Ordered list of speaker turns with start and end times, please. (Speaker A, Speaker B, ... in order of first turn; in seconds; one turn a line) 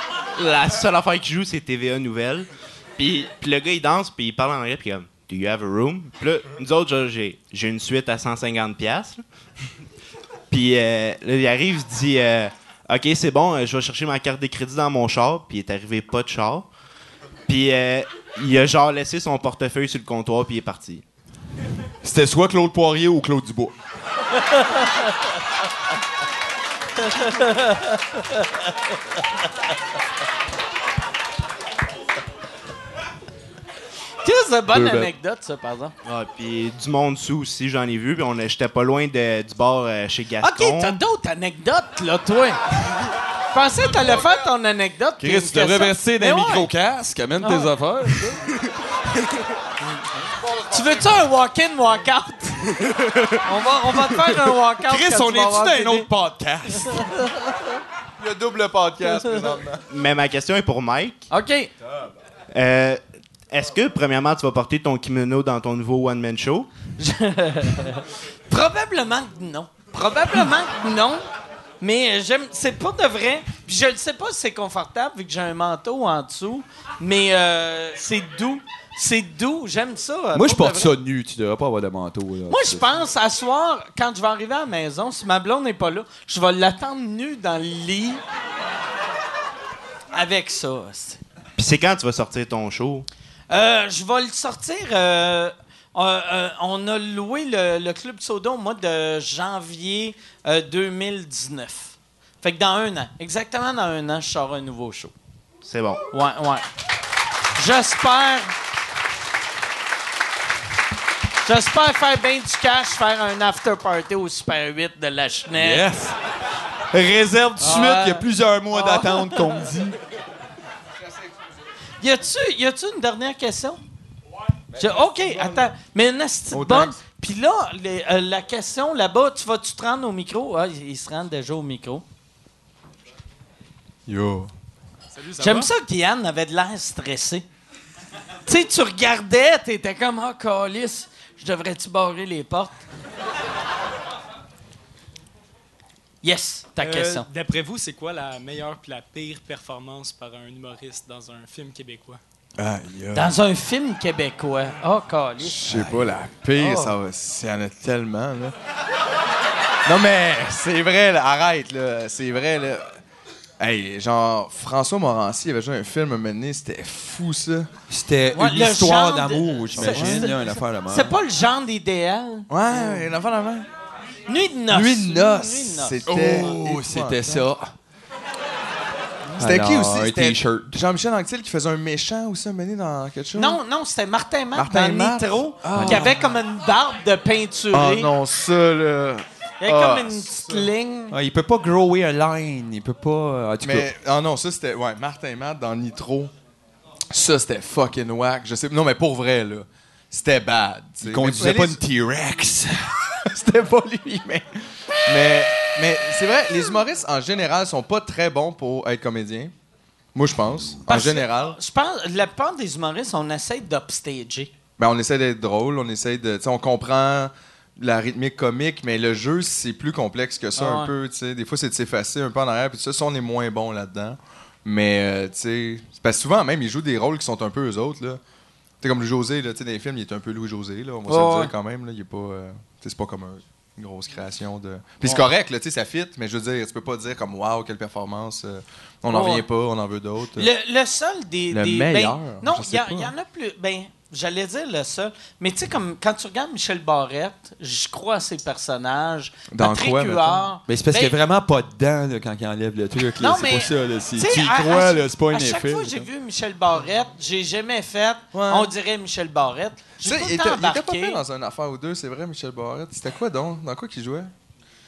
Speaker A: 0.4-9.2
Speaker A: 10.5-16.7
Speaker A: 17.5-21.0
Speaker B: 22.0-23.8
Speaker C: 27.0-28.4
Speaker C: 34.2-35.9
Speaker B: 34.8-35.0
Speaker A: 36.0-41.0
Speaker C: 40.4-42.6
Speaker C: 43.5-46.7
Speaker B: 45.2-48.5
Speaker C: 47.4-48.3
Speaker C: 50.7-52.8
Speaker C: 53.4-56.1
Speaker B: 54.8-57.3
Speaker C: 56.9-57.6
Speaker D: 58.2-59.8
Speaker A: 59.9-61.3
Speaker C: 61.3-61.7
Speaker A: 62.5-66.7
Speaker C: 67.0-71.2
Speaker C: 71.8-80.9
Speaker B: 80.3-82.9
Speaker C: 82.5-88.2
Speaker C: 90.1-91.2
Speaker A: 91.6-93.1
Speaker C: 93.5-105.1
Speaker A: 105.6-106.0
Speaker C: 106.1-106.6
Speaker C: 107.6-108.5
Speaker C: 111.5-115.9
Speaker B: 115.6-116.2
Speaker B: 116.9-120.0
Speaker C: 117.6-119.5
Speaker C: 122.0-123.8
Speaker C: 124.8-132.1
Speaker D: 126.5-126.9
Speaker D: 134.1-134.5
Speaker C: 135.4-137.4
Speaker C: 138.5-142.8
Speaker C: 146.2-147.3
Speaker E: 146.8-152.2
Speaker D: 152.6-153.3
Speaker C: 153.1-155.9
Speaker D: 155.4-158.6
Speaker C: 156.6-157.0
Speaker D: 159.8-163.0
Speaker D: 163.6-167.7
Speaker B: 167.9-171.2
Speaker C: 168.3-173.1
Speaker D: 169.8-170.3
Speaker D: 172.5-173.7
Speaker C: 174.3-176.0
Speaker D: 174.7-177.4
Speaker B: 176.1-177.7
Speaker B: 179.4-180.7
Speaker D: 179.4-183.6
Speaker C: 183.3-188.1
Speaker D: 184.6-186.2
Speaker B: 185.7-186.2
Speaker D: 187.7-190.7
Speaker C: 189.6-191.2
Speaker B: 191.1-193.9
Speaker D: 193.6-196.3
Speaker D: 197.1-201.8
Speaker B: 201.0-203.0
Speaker D: 203.3-204.4
Speaker D: 205.1-209.5
Speaker D: 210.2-211.6
Speaker C: 210.9-214.5
Speaker D: 214.8-228.2
Speaker C: 220.6-220.9
Speaker D: 228.8-240.5
Speaker C: 231.1-231.5
Speaker C: 239.1-239.5
Speaker C: 240.4-251.2
Speaker D: 241.5-243.1
Speaker D: 249.5-250.5
Speaker B: 250.7-256.1
Speaker C: 253.2-261.2
Speaker D: 258.3-258.7
Speaker D: 260.0-264.3